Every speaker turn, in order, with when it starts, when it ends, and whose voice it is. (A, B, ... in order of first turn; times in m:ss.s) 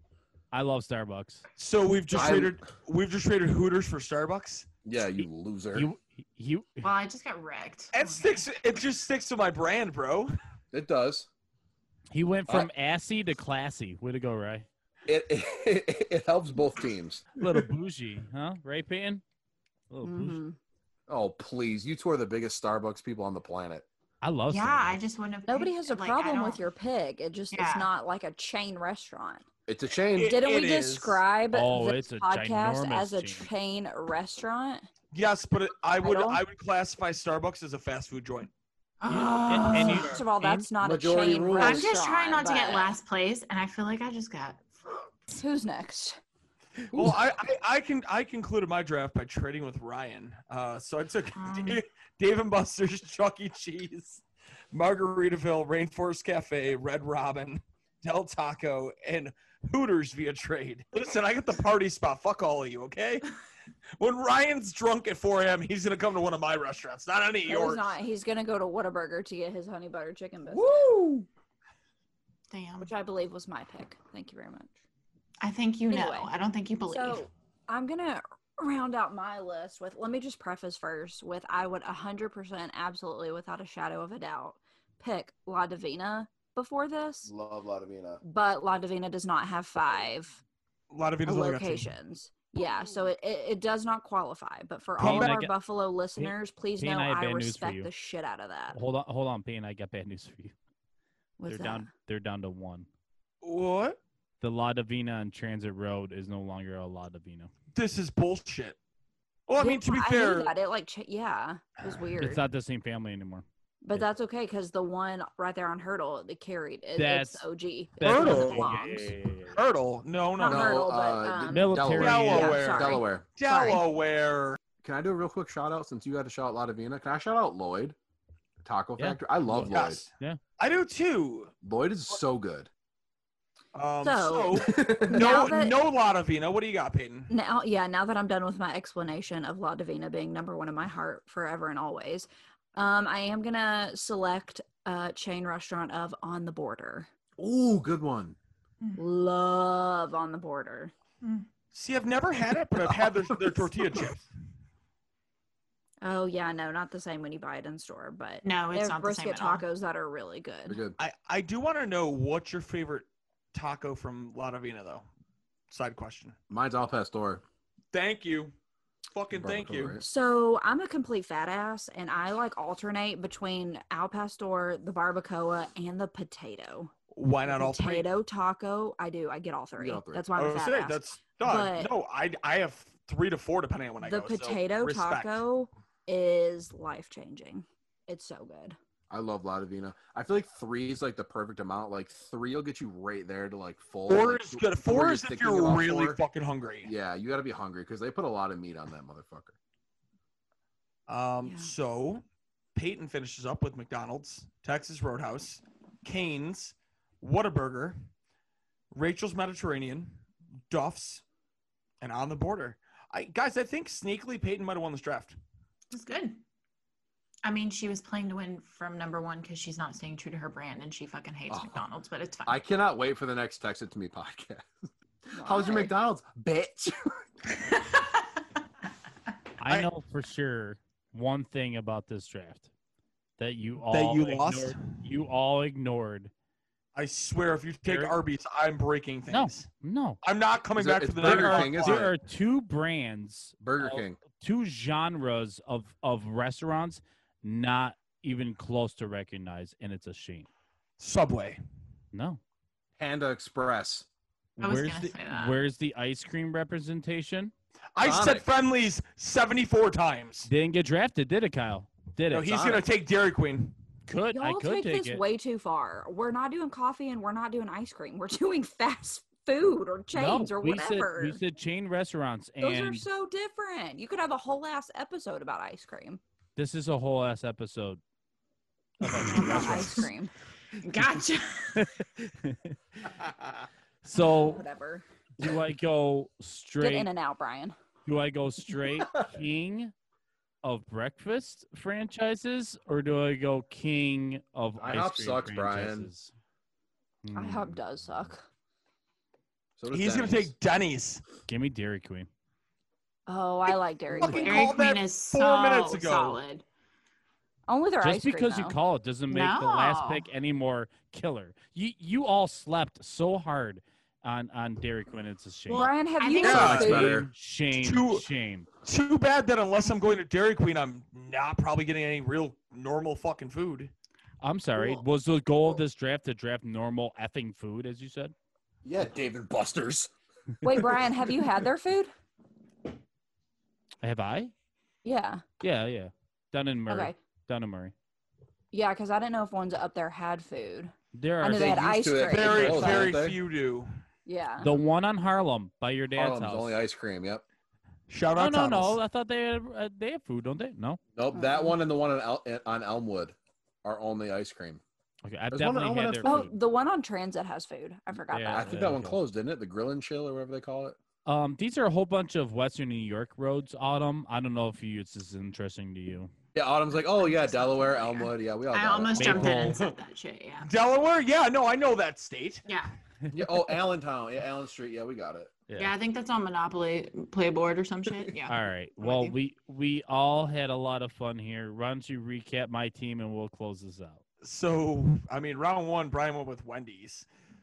0:00.5-0:01.4 A
0:01.6-0:04.7 B
0:02.1-0:02.6 C
0:04.8-0:05.9 C
0:05.8-0:06.9 A
0:06.8-0:08.4 D
0:07.9-0:10.3 B
0:10.7-0:11.3 C
0:12.1-0:14.7 A
0:15.1-0:17.2 C
0:17.4-0:19.2 A
0:19.9-0:20.4 A
0:20.0-0:20.6 E
0:21.1-0:23.9 C
0:24.2-0:25.0 A
0:24.5-0:26.6 D
0:25.5-0:29.4 E
0:27.5-0:27.9 D
0:29.7-0:30.4 C
0:30.1-0:31.2 B
0:30.2-0:34.9 E
0:31.5-0:33.5 A
0:35.1-0:38.5 B
0:36.0-0:36.4 E
0:39.0-0:40.2 D
0:39.1-0:40.6 A
0:39.7-0:42.9 E
0:40.8-0:41.9 C
0:41.6-0:44.6 D
0:45.3-0:46.2 E
0:46.9-0:47.2 C
0:46.9-0:54.2 B
0:51.4-0:51.8 D
0:54.7-1:03.3 B
1:04.0-1:08.0 B
1:07.5-1:11.3 E
1:10.5-1:11.0 B
1:12.5-1:12.9 D
1:12.8-1:14.8 E
1:15.4-1:17.2 D
1:15.9-1:16.3 E
1:16.9-1:27.3 E
1:27.3-1:28.2 C
1:28.2-1:30.4 E
1:30.9-1:31.9 B
1:31.2-1:38.8 E
1:35.0-1:35.4 B
1:35.0-1:35.5 A
1:36.2-1:37.9 A
1:38.7-1:40.5 A
1:41.4-1:41.9 E
1:41.5-1:42.9 A
1:43.4-1:44.0 B
1:44.4-1:47.5 A
1:47.7-1:48.8 B
1:49.5-1:50.5 B
1:49.6-1:52.4 E
1:52.2-1:54.1 A
1:53.8-1:59.2 E
1:57.0-1:57.4 A
1:58.0-1:59.6 A
1:58.0-1:58.8 B
1:59.5-2:00.9 B
2:00.4-2:03.8 E
2:00.4-2:03.3 C
2:01.5-2:02.6 A
2:02.0-2:04.6 B
2:04.8-2:08.0 C
2:08.6-2:10.0 C
2:09.0-2:09.6 A
2:09.5-2:11.5 B
2:11.6-2:12.7 C
2:13.7-2:17.3 B
2:14.0-2:15.8 E
2:14.6-2:15.5 C
2:17.3-2:27.1 E
2:27.4-2:28.4 C
2:29.0-2:30.9 E
2:31.2-2:31.5 D
2:31.7-2:34.2 B
2:32.8-2:33.6 C
2:36.0-2:40.8 E
2:38.4-2:39.7 D
2:40.7-2:41.0 C
2:41.0-2:45.0 B
2:45.7-2:46.4 B
2:46.5-2:47.4 C
2:47.9-2:48.5 B
2:49.1-2:50.0 B
2:49.3-2:50.1 C
2:50.0-2:56.9 E
2:57.2-2:58.1 B
2:57.5-3:01.9 E
2:59.8-3:00.3 C
3:00.4-3:05.4 B
3:04.0-3:08.8 E
3:09.1-3:16.2 C
3:14.1-3:16.9 B
3:16.8-3:19.6 C
3:21.1-3:22.2 B
3:21.4-3:21.7 E
3:22.8-3:28.0 B
3:28.9-3:31.2 B
3:32.0-3:35.4 B
3:35.9-3:36.4 D
3:37.4-3:42.6 D
3:41.5-3:41.8 C
3:42.5-3:44.7 C
3:45.3-3:47.2 C
3:45.3-3:45.9 E
3:47.7-3:48.2 D
3:49.6-3:52.7 A
3:53.4-3:56.3 A
3:53.9-3:55.0 B
3:57.0-3:59.7 B
3:57.9-3:58.2 A
3:59.3-4:00.2 A
4:00.2-4:02.1 B
4:00.8-4:02.1 C
4:01.2-4:10.5 A
4:03.6-4:04.2 C
4:11.0-4:11.6 B
4:12.1-4:12.4 A
4:13.0-4:14.1 C
4:14.6-4:17.5 A
4:14.6-4:15.6 D
4:18.0-4:20.5 B
4:18.0-4:18.4 C
4:20.5-4:22.8 A
4:22.3-4:23.8 B
4:24.1-4:25.2 A
4:24.3-4:31.4 E
4:30.1-4:33.0 A
4:32.6-4:36.2 E
4:36.6-4:38.0 A
4:39.0-4:40.1 A
4:39.3-4:40.3 E
4:40.8-4:41.9 D
4:41.8-4:43.1 A
4:44.0-4:44.6 A
4:44.4-4:45.0 E
4:45.4-4:47.1 A
4:46.8-4:47.8 E
4:48.1-4:49.9 A
4:50.6-4:56.3 A
4:54.8-4:56.1 C
4:57.2-4:58.3 A
4:57.4-4:58.4 E
4:59.8-5:00.5 C
4:59.9-5:01.2 B
5:01.5-5:02.3 A
5:03.3-5:04.7 E
5:04.2-5:06.4 B
5:04.4-5:06.6 D
5:07.7-5:08.8 E
5:08.0-5:15.9 A
5:09.3-5:10.3 D
5:15.7-5:17.2 E
5:15.7-5:16.9 D
5:16.4-5:17.3 C
5:16.4-5:16.9 B
5:16.8-5:18.7 A
5:17.8-5:18.2 B
5:18.8-5:23.9 B
5:24.4-5:28.3 A
5:28.8-5:30.1 C
5:30.6-5:32.1 E
5:30.6-5:31.0 C
5:34.0-5:34.5 A
5:35.0-5:35.4 E
5:35.6-5:37.9 A
5:36.9-5:37.2 E
5:38.7-5:43.1 E
5:41.1-5:42.0 A
5:41.5-5:43.4 C
5:42.3-5:43.9 B
5:44.3-5:44.8 E
5:44.6-5:46.8 A
5:46.2-5:47.4 C
5:48.1-5:49.0 B
5:48.3-5:51.0 A
5:51.2-5:54.8 C
5:51.3-5:51.8 E
5:55.2-5:56.5 A
5:55.5-5:56.5 C
5:56.2-5:58.8 E
5:58.3-5:59.2 A
5:58.5-6:01.0 C
6:01.3-6:06.3 A
6:06.5-6:09.8 C
6:07.1-6:10.7 D
6:09.2-6:09.8 A
6:10.6-6:12.7 B
6:12.7-6:12.9 D
6:13.3-6:15.5 C
6:15.7-6:16.0 A
6:15.8-6:19.4 D
6:18.5-6:24.2 A
6:24.4-6:27.3 B